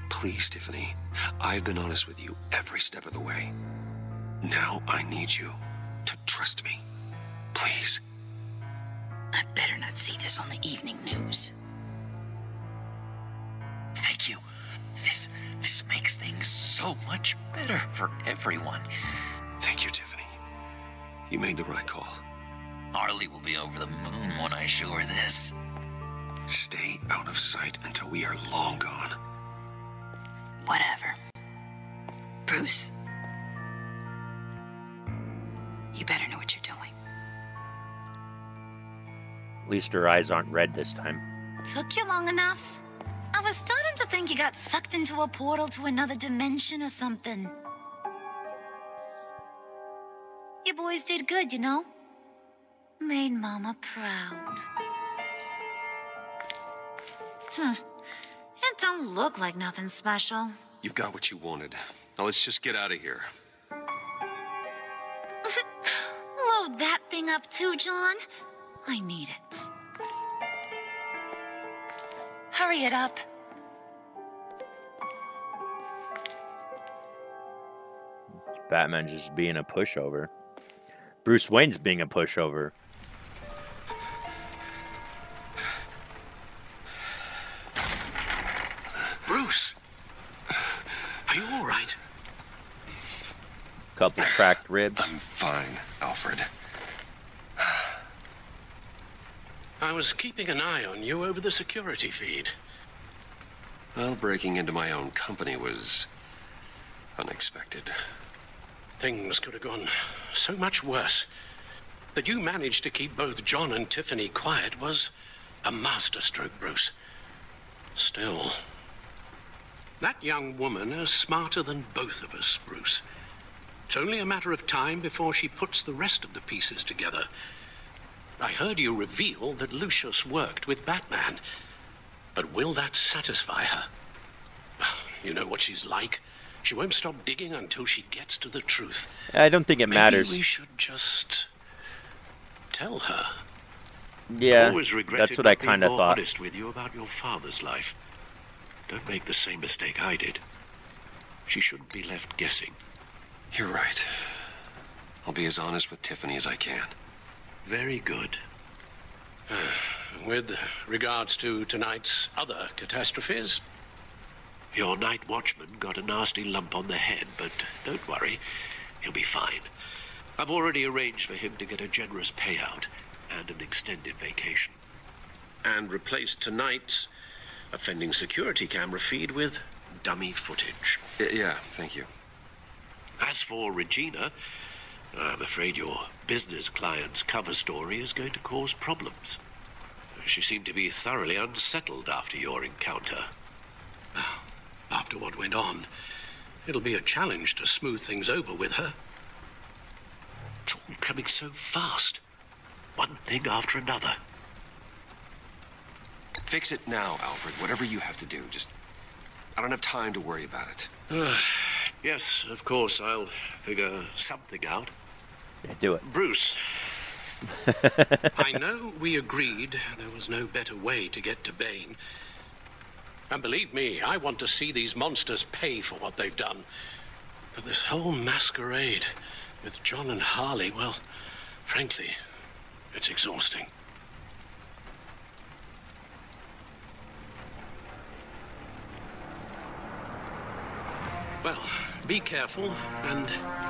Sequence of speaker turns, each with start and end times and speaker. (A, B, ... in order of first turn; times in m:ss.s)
0:00.1-0:03.5 A
0:04.4-0:06.8 A
0:07.5-0:08.0 A
0:09.3-0:11.5 B
0:14.0-0:14.4 C
0:15.0-0:18.9 C
0:19.6-0:20.4 A
0:21.3-0:22.2 A
0:22.9-0:25.5 C
0:26.5-0:29.2 A
0:30.6-0:31.2 B
0:32.5-0:32.9 B
0:35.9-0:36.9 B
0:39.6-0:41.2 D
0:41.6-0:42.8 E
0:43.3-0:47.5 E
0:50.6-0:51.9 E
0:53.0-0:54.6 E
0:57.5-0:57.8 E
0:58.6-1:00.6 E
1:00.8-1:03.3 A
1:05.4-1:08.2 E
1:08.8-1:09.7 E
1:12.5-1:13.2 E
1:18.6-1:20.3 D
1:21.2-1:22.7 D
1:29.2-1:29.7 F
1:31.3-1:32.0 F
1:34.0-1:35.1 D
1:34.2-1:36.5 A
1:37.6-1:37.9 A
1:39.8-1:42.5 F
1:43.9-1:46.1 A
1:47.2-1:48.0 A
1:49.0-1:51.3 F
1:52.1-1:55.1 F
1:55.6-1:56.9 F
1:58.0-1:58.6 F
2:00.0-2:03.0 F
2:03.9-2:07.3 F
2:08.4-2:11.4 F
2:12.3-2:13.9 F
2:14.8-2:19.1 F
2:19.3-2:20.4 D
2:19.9-2:21.5 F
2:22.7-2:23.4 F
2:24.3-2:26.2 D
2:24.4-2:28.0 F
2:28.9-2:30.4 F
2:31.5-2:32.8 F
2:33.5-2:34.3 A
2:35.2-2:37.0 A
2:37.6-2:38.4 F
2:39.5-2:43.6 F
2:44.7-2:48.4 F
2:49.0-2:49.7 F
2:50.4-2:54.8 F
2:55.6-2:57.1 F
2:57.7-3:01.0 F
3:01.2-3:02.1 A
3:03.2-3:04.3 F
3:05.1-3:09.4 F
3:10.2-3:13.3 F
3:14.1-3:15.9 F
3:16.6-3:19.0 F
3:20.7-3:22.2 F
3:23.0-3:24.2 F
3:26.4-3:28.7 A
3:29.6-3:30.9 A
3:31.1-3:34.9 F
3:35.6-3:36.0 D
3:36.0-3:36.6 F
3:37.5-3:38.3 D
3:38.3-3:42.0 F
3:43.3-3:46.7 F
3:47.5-3:51.0 F
3:51.6-3:52.2 F
3:52.9-3:53.7 F
4:01.4-4:03.4 F